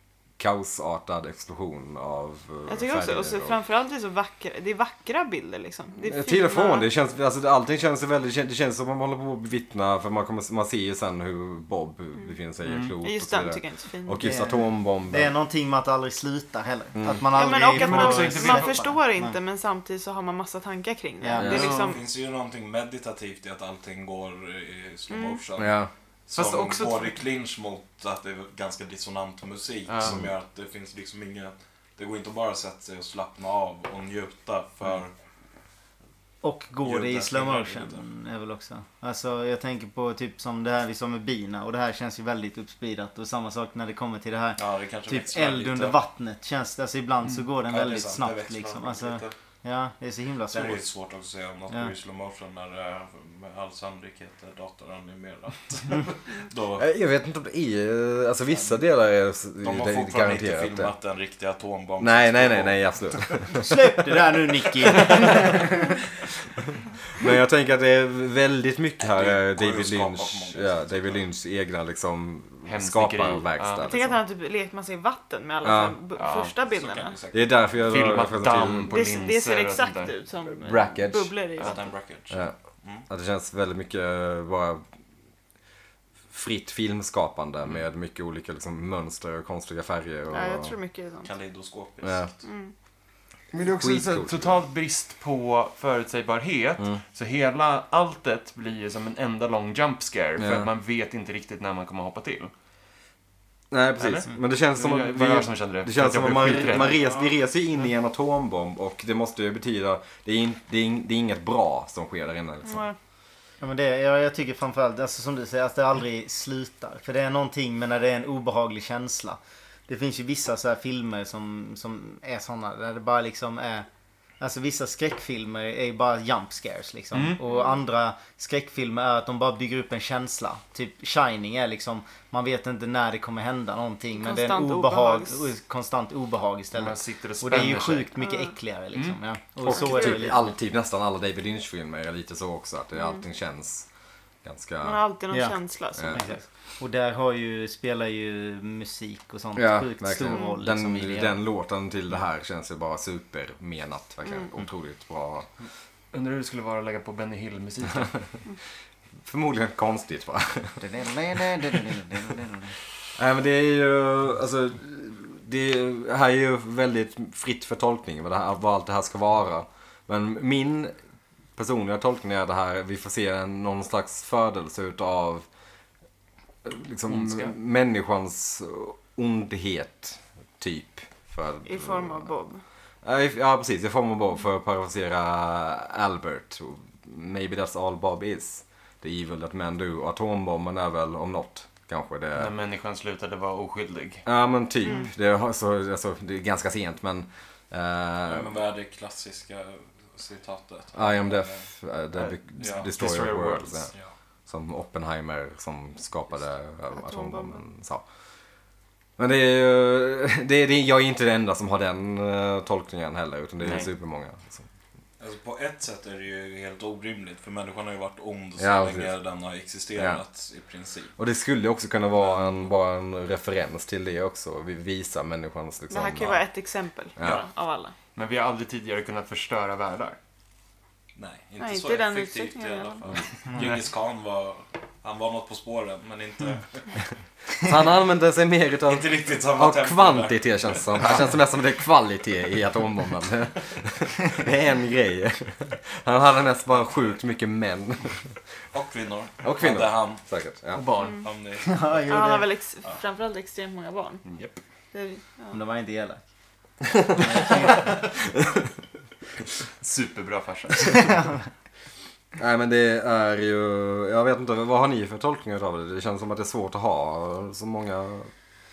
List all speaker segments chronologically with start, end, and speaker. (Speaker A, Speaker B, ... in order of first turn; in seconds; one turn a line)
Speaker A: 0.4-3.6
Speaker B: 2.7-6.9
Speaker A: 6.0-15.3
Speaker C: 12.6-12.9
Speaker B: 13.0-14.4
Speaker D: 14.2-19.4
Speaker A: 17.0-17.2
Speaker B: 17.3-22.0
Speaker C: 17.7-18.8
Speaker D: 21.2-21.6
Speaker A: 21.4-21.7
Speaker C: 21.4-22.0
Speaker E: 21.5-25.7
Speaker B: 25.1-25.4
Speaker A: 25.6-25.9
Speaker E: 26.3-35.1
Speaker C: 26.4-27.2
Speaker C: 29.9-30.2
Speaker A: 30.0-30.3
Speaker D: 36.4-50.9
Speaker E: 36.8-38.0
Speaker E: 44.6-46.0
Speaker E: 47.7-49.3
Speaker E: 50.5-56.9
Speaker A: 56.8-60.9
Speaker E: 59.6-63.4
Speaker A: 62.0-63.7
Speaker D: 63.6-65.8
Speaker A: 67.2-74.2
Speaker E: 69.0-71.3
Speaker C: 72.7-74.0
Speaker B: 73.8-77.2
Speaker A: 75.6-76.0
Speaker C: 76.2-76.5
Speaker E: 76.7-78.2
Speaker A: 77.3-79.0
Speaker C: 77.9-80.1
Speaker B: 78.8-81.8
Speaker A: 80.6-81.4
Speaker E: 81.6-83.0
Speaker A: 82.3-82.5
Speaker A: 83.1-84.8
Speaker A: 86.3-90.7
Speaker B: 90.3-91.3
Speaker E: 91.2-92.4
Speaker A: 92.0-92.3
Speaker B: 92.4-92.7
Speaker C: 93.5-102.5
Speaker A: 93.6-94.6
Speaker A: 100.4-100.7
Speaker A: 103.7-112.9
Speaker C: 104.0-107.0
Speaker E: 106.8-107.3
Speaker B: 112.7-113.0
Speaker D: 113.6-123.9
Speaker D: 124.4-140.5
Speaker C: 127.1-127.4
Speaker B: 127.4-127.8
Speaker B: 134.2-135.5
Speaker C: 136.7-138.1
Speaker B: 138.2-138.6
Speaker C: 138.9-139.2
Speaker A: 139.6-143.9
Speaker B: 139.7-140.2
Speaker B: 143.0-143.2
Speaker A: 144.4-145.0
Speaker B: 144.8-146.3
Speaker D: 145.3-151.4
Speaker A: 145.9-146.2
Speaker A: 149.6-155.5
Speaker C: 156.1-158.2
Speaker A: 159.2-160.8
Speaker D: 160.8-162.7
Speaker A: 163.2-170.9
Speaker A: 171.6-175.5
Speaker A: 176.6-182.3
Speaker C: 177.1-177.6
Speaker B: 181.7-182.6
Speaker A: 183.0-192.5
Speaker C: 192.3-194.2
Speaker A: 194.2-198.6
Speaker B: 194.8-195.1
Speaker E: 198.3-201.6
Speaker A: 200.9-203.9
Speaker C: 202.2-203.9
Speaker E: 202.6-202.9
Speaker A: 204.5-208.0
Speaker B: 206.9-207.6
Speaker A: 209.2-214.7
Speaker C: 213.6-213.9
Speaker E: 215.2-221.1
Speaker A: 218.6-219.1
Speaker A: 219.9-220.2
Speaker A: 221.2-226.4
Speaker B: 225.9-227.9
Speaker A: 227.2-227.4
Speaker C: 228.2-230.2
Speaker E: 231.2-237.0
Speaker B: 231.6-233.0
Speaker A: 237.6-248.4
Speaker E: 238.9-241.2
Speaker E: 248.7-250.2
Speaker A: 249.4-250.9
Speaker C: 250.8-251.3
Speaker B: 251.0-251.3
Speaker E: 251.2-252.0
Speaker D: 251.6-252.5
Speaker B: 252.1-254.2
Speaker C: 254.3-254.6
Speaker B: 254.9-255.6
Speaker D: 255.5-256.2
Speaker D: 257.2-257.9
Speaker C: 259.8-261.3
Speaker A: 262.4-268.3